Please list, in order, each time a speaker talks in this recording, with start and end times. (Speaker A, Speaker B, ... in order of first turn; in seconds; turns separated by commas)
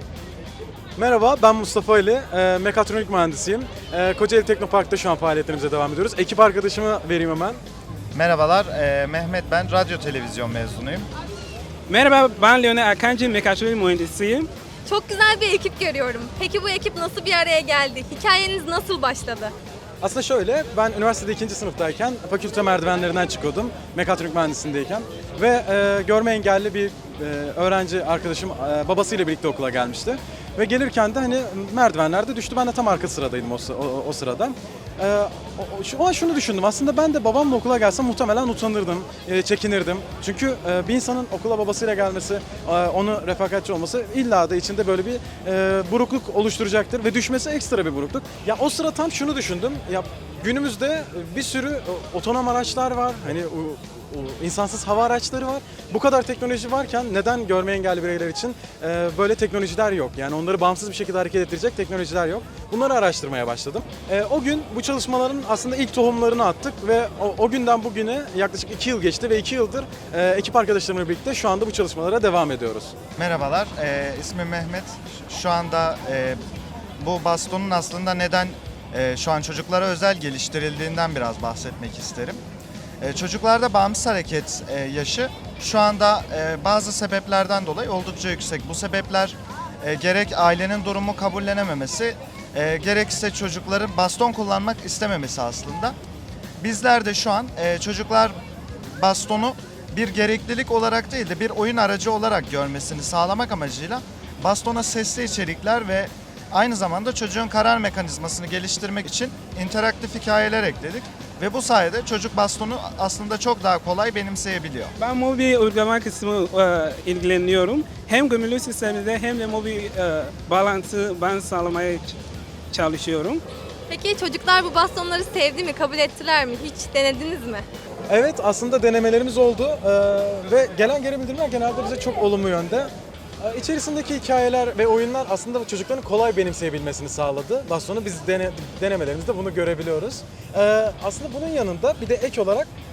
Speaker A: 1.0-7.6, Speaker B: 8.1-11.1, Speaker C: 11.9-14.5, Speaker D: 14.8-19.5, Speaker A: 20.0-72.9, Speaker B: 73.2-76.4, Speaker B: 77.0-82.4, Speaker B: 83.0-96.0, Speaker B: 96.6-98.4, Speaker B: 99.0-114.9, Speaker C: 115.0-122.1, Speaker C: 122.7-123.4, Speaker D: 123.9-127.6, Speaker A: 128.1-142.7